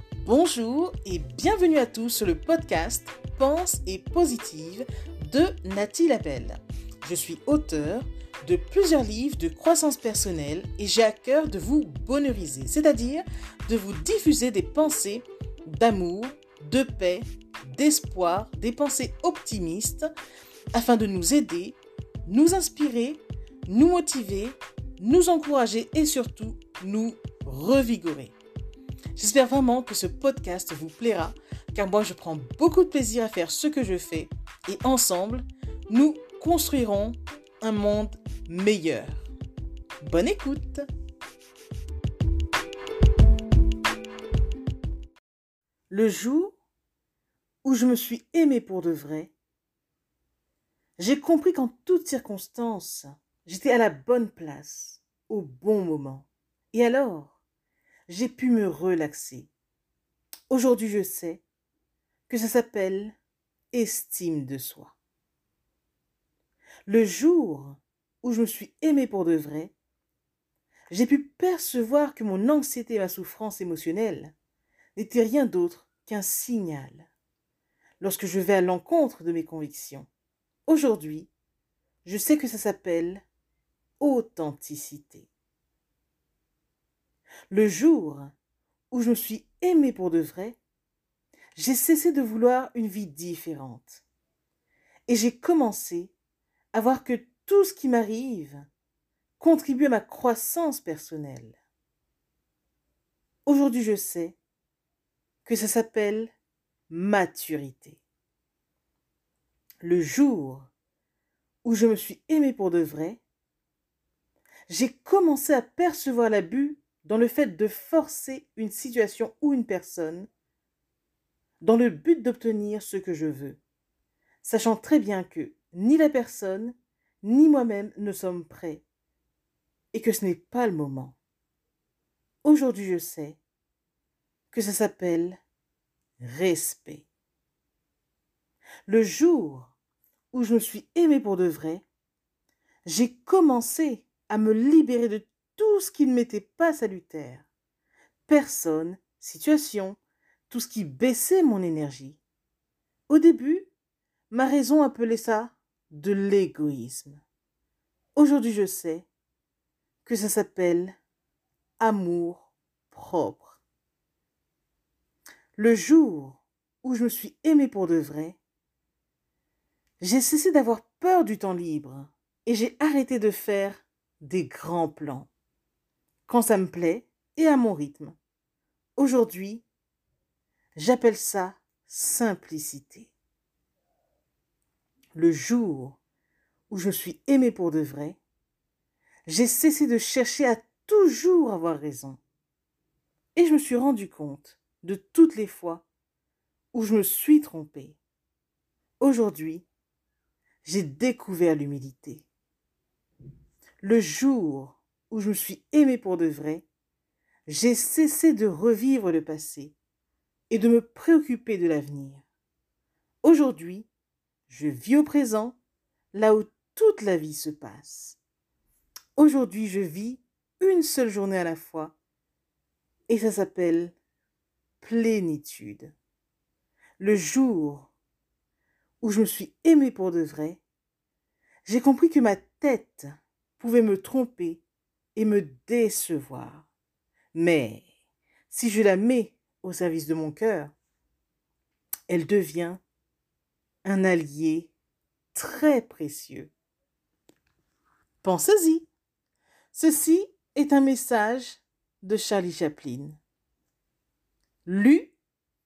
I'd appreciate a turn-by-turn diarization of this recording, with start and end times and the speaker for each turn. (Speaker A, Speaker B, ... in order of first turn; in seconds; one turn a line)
Speaker A: 0.2-20.1
Speaker A: 20.7-28.4
Speaker A: 29.1-39.3
Speaker A: 40.0-40.9
Speaker A: 45.9-46.6
Speaker A: 47.6-49.3
Speaker A: 51.0-57.4
Speaker A: 58.1-59.5
Speaker A: 60.5-61.4
Speaker A: 62.3-63.2
Speaker A: 63.7-65.0
Speaker A: 66.8-69.7
Speaker A: 70.9-74.3
Speaker A: 74.9-77.1
Speaker A: 78.0-80.1
Speaker A: 80.7-81.3
Speaker A: 82.0-83.2
Speaker A: 84.0-85.3
Speaker A: 87.5-88.3
Speaker A: 88.9-90.6
Speaker A: 91.5-94.0
Speaker A: 95.1-96.1
Speaker A: 96.7-98.7
Speaker A: 99.4-101.6
Speaker A: 103.5-104.4
Speaker A: 105.4-106.3
Speaker A: 106.9-108.0
Speaker A: 109.8-110.7
Speaker A: 111.6-113.2
Speaker A: 114.7-120.3
Speaker A: 121.6-123.6
Speaker A: 124.4-128.8
Speaker A: 129.9-131.2
Speaker A: 132.4-133.4
Speaker A: 134.5-135.4
Speaker A: 136.2-137.1
Speaker A: 138.8-139.7
Speaker A: 140.3-141.8
Speaker A: 142.8-147.5
Speaker A: 148.3-152.2
Speaker A: 153.1-153.7
Speaker A: 154.3-157.2
Speaker A: 158.2-159.1
Speaker A: 160.0-160.9
Speaker A: 161.8-163.6
Speaker A: 165.6-168.4
Speaker A: 170.0-175.3
Speaker A: 176.3-178.2
Speaker A: 179.0-179.7
Speaker A: 180.8-183.1
Speaker A: 185.1-186.0
Speaker A: 186.7-188.2
Speaker A: 189.2-192.2
Speaker A: 193.3-195.9
Speaker A: 196.7-198.0
Speaker A: 199.0-199.7
Speaker A: 200.6-202.3
Speaker A: 203.8-206.7
Speaker A: 207.4-209.8
Speaker A: 210.5-212.2
Speaker A: 213.2-213.9
Speaker A: 214.5-215.6
Speaker A: 216.1-218.2
Speaker A: 219.2-222.0
Speaker A: 223.1-223.9
Speaker A: 224.8-225.9
Speaker A: 227.0-227.9
Speaker A: 229.0-230.6
Speaker A: 231.6-234.6
Speaker A: 235.1-236.7
Speaker A: 237.3-237.9
Speaker A: 238.5-240.7
Speaker A: 242.1-242.8
Speaker A: 243.8-244.7
Speaker A: 245.3-246.5
Speaker A: 248.2-248.9
Speaker A: 249.7-253.2
Speaker A: 254.7-255.2